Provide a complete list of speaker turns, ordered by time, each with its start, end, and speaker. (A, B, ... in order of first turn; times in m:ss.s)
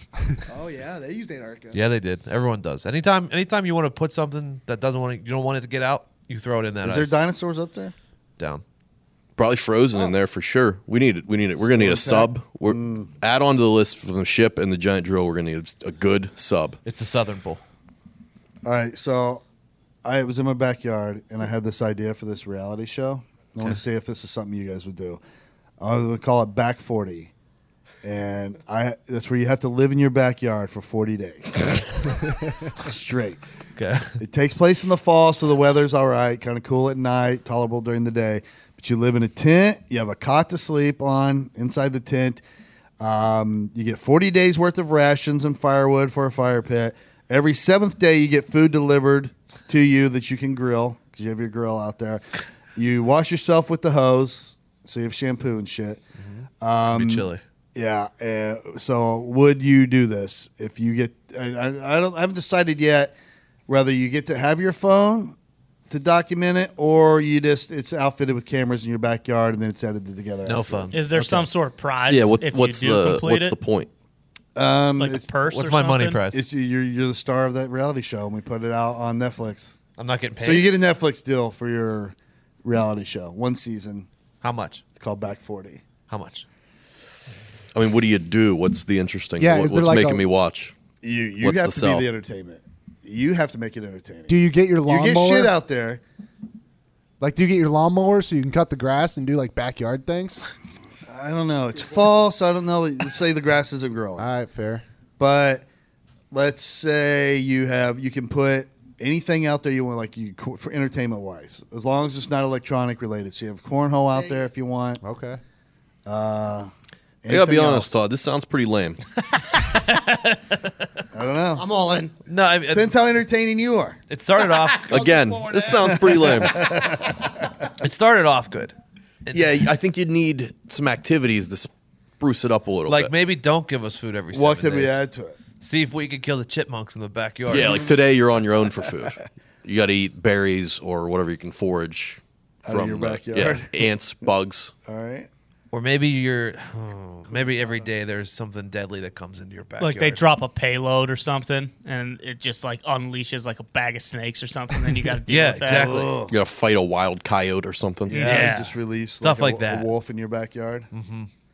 0:00.5-0:01.8 A
0:01.7-0:07.2 B
0:06.8-0:07.9 C
0:08.4-0:08.6 B
0:09.4-0:16.8 D
0:11.6-0:13.1 C
0:16.8-0:17.6 B
0:18.6-0:19.4 C
0:20.0-0:25.2 C
0:25.8-0:27.3 C
0:28.0-0:31.8 C
0:32.8-0:33.4 C
0:33.8-0:34.2 B
0:34.2-0:42.4 C
0:43.0-0:56.0 C
0:56.2-0:57.4 B
0:56.6-1:03.1 C
1:03.7-1:05.4 C
1:05.9-1:10.9 C
1:10.4-1:11.4 B
1:10.9-1:13.6 E
1:12.1-1:13.9 D
1:14.6-1:15.3 C
1:15.0-1:16.2 E
1:15.5-1:16.4 B
1:16.3-1:19.8 C
1:20.0-1:20.7 B
1:20.4-1:24.1 C
1:24.4-1:24.8 B
1:25.0-1:25.8 C
1:26.1-1:26.4 B
1:27.7-1:30.7 D
1:29.4-1:30.2 F
1:31.0-1:36.0 C
1:31.4-1:32.0 D
1:34.3-1:35.5 F
1:37.2-1:40.4 F
1:41.1-1:44.3 C
1:44.2-1:44.8 F
1:45.2-1:45.6 C
1:46.3-1:55.0 C
1:54.1-1:54.4 A
1:55.0-1:55.4 F
1:56.0-1:56.7 C
1:57.2-1:58.0 C
1:57.3-1:59.0 D
1:59.6-2:00.6 B
2:01.1-2:01.7 C
2:01.6-2:02.1 A
2:02.3-2:02.9 B
2:02.7-2:04.0 C
2:04.1-2:04.9 B
2:04.4-2:07.3 A
2:04.9-2:06.7 D
2:05.8-2:07.1 C
2:07.8-2:08.7 B
2:09.3-2:11.7 D
2:12.2-2:13.1 D
2:12.9-2:15.0 B
2:14.3-2:15.4 C
2:15.6-2:17.9 B
2:17.5-2:24.7 D
2:17.5-2:17.9 C
2:22.6-2:23.9 C
2:24.8-2:25.3 C
2:25.7-2:30.2 B
2:29.8-2:36.0 E
2:35.3-2:36.1 B
2:35.6-2:36.3 C
2:36.3-2:38.3 D
2:38.1-2:40.9 C
2:38.1-2:38.7 E
2:38.2-2:39.9 B
2:40.9-2:41.3 B